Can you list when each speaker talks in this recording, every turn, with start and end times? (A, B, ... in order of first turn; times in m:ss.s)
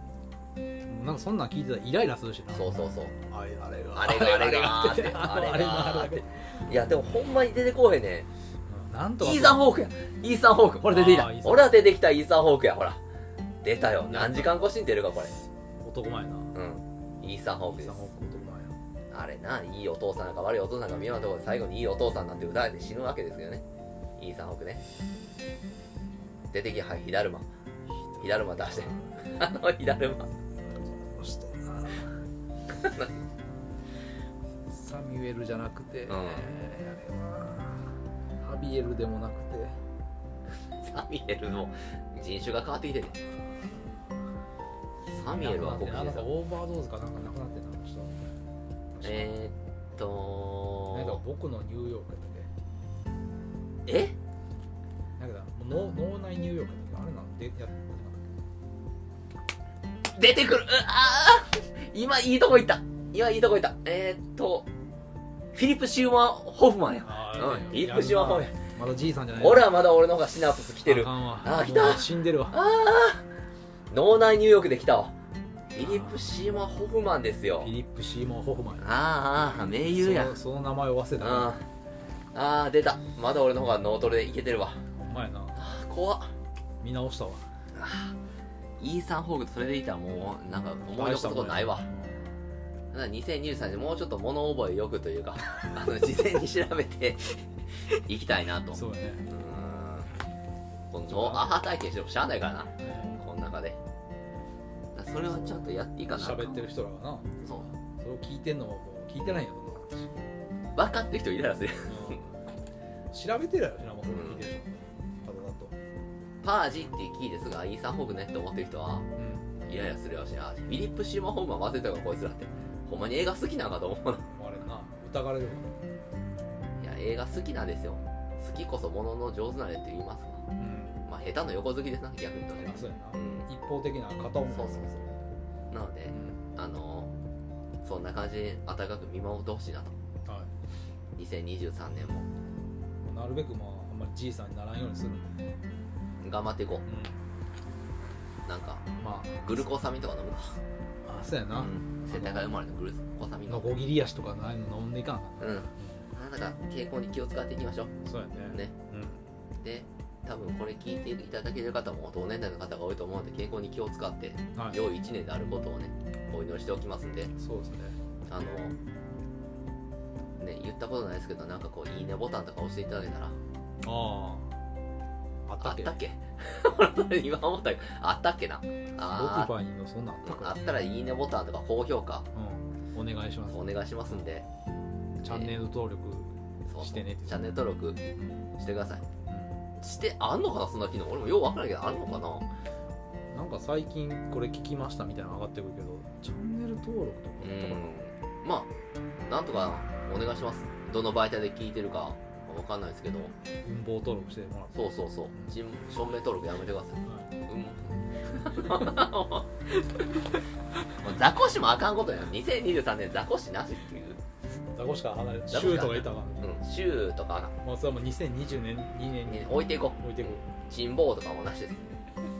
0:00.9-0:06.7 A
0:02.5-0:03.2 B
0:04.0-0:08.3 B
0:08.7-0:09.7 A
0:09.2-0:13.0 B
0:10.8-0:11.8 A
0:13.6-0:15.4 B
0:14.1-0:14.6 A
0:15.8-0:16.5 A
0:16.5-0:18.1 B
0:17.7-0:18.7 A
0:19.1-0:23.6 B
0:24.2-0:24.8 B
0:26.5-0:27.5 B
0:27.9-0:29.4 A
0:28.2-0:30.3 B
0:30.6-0:32.2 A
0:32.7-0:33.2 B
0:34.7-0:39.8 A
0:36.1-0:36.5 B
0:40.8-0:43.2 B
0:45.1-0:46.3 B
0:45.3-0:48.2 A
0:49.0-0:49.3 A
0:49.0-0:51.2 B
0:50.9-0:52.5 A
0:53.9-0:54.2 B
0:55.2-0:58.3 A
1:00.1-1:04.7 B
1:05.5-1:08.6 B
1:07.0-1:09.7 A
1:09.4-1:13.3 B
1:10.8-1:12.6 A
1:13.9-1:15.1 B
1:15.7-1:17.7 B
1:15.8-1:16.4 A
1:17.6-1:18.9 A
1:18.8-1:20.4 B
1:19.7-1:21.5 A
1:21.2-1:21.6 B
1:22.3-1:24.8 B
1:25.0-1:25.6 A
1:25.6-1:26.3 B
1:26.8-1:27.5 A
1:27.7-1:28.2 B
1:28.8-1:31.9 B
1:30.9-1:32.3 A
1:32.9-1:37.4 B
1:37.9-1:40.1 B
1:38.7-1:39.3 A
1:40.9-1:43.8 B
1:41.1-1:41.6 A
1:42.8-1:43.2 A
1:44.9-1:46.7 B
1:46.1-1:50.2 A
1:50.7-1:52.2 B
1:51.9-1:52.3 A
1:53.1-1:55.8 A
1:54.0-1:54.5 B
1:56.4-1:59.1 B
1:59.2-1:59.6 A
1:59.6-2:04.2 B
2:04.3-2:05.7 A
2:06.8-2:10.4 B
2:10.6-2:11.0 A
2:11.1-2:13.4 B
2:12.6-2:15.2 A
2:14.5-2:14.9 B
2:15.7-2:17.1 B
2:16.1-2:16.4 A
2:17.8-2:20.0 B
2:20.2-2:20.5 A
2:21.2-2:22.3 B
2:23.0-2:25.4 A
2:26.2-2:26.8 B
2:26.9-2:27.1 A
2:28.4-2:30.6 B
2:29.0-2:29.6 A
2:31.0-2:32.5 A
2:31.6-2:33.8 B
2:33.5-2:36.1 A
2:35.4-2:38.0 B
2:38.0-2:39.2 A
2:38.5-2:38.7 B
2:39.6-2:47.3 B
2:47.4-2:48.0 A
2:48.3-2:48.8 B
2:50.4-2:53.4 B
2:53.8-2:54.5 A
2:55.5-2:56.0 A
2:55.6-2:59.5 B
2:59.0-3:00.6 A
3:00.2-3:02.3 B
3:02.3-3:03.7 A
3:03.5-3:04.5 B
3:05.2-3:07.6 A
3:05.2-3:05.5 B
3:06.7-3:08.0 B
3:08.6-3:09.0 B
3:09.3-3:09.6 A
3:09.8-3:12.5 B
3:13.3-3:18.0 A
3:17.4-3:18.7 B
3:19.3-3:23.3 B
3:23.6-3:25.6 A
3:24.7-3:29.5 B
3:27.0-3:27.3 A
3:31.0-3:34.2 B
3:34.8-3:36.6 A
3:35.5-3:37.5 B
3:37.6-3:40.4 A
3:39.3-3:42.0 B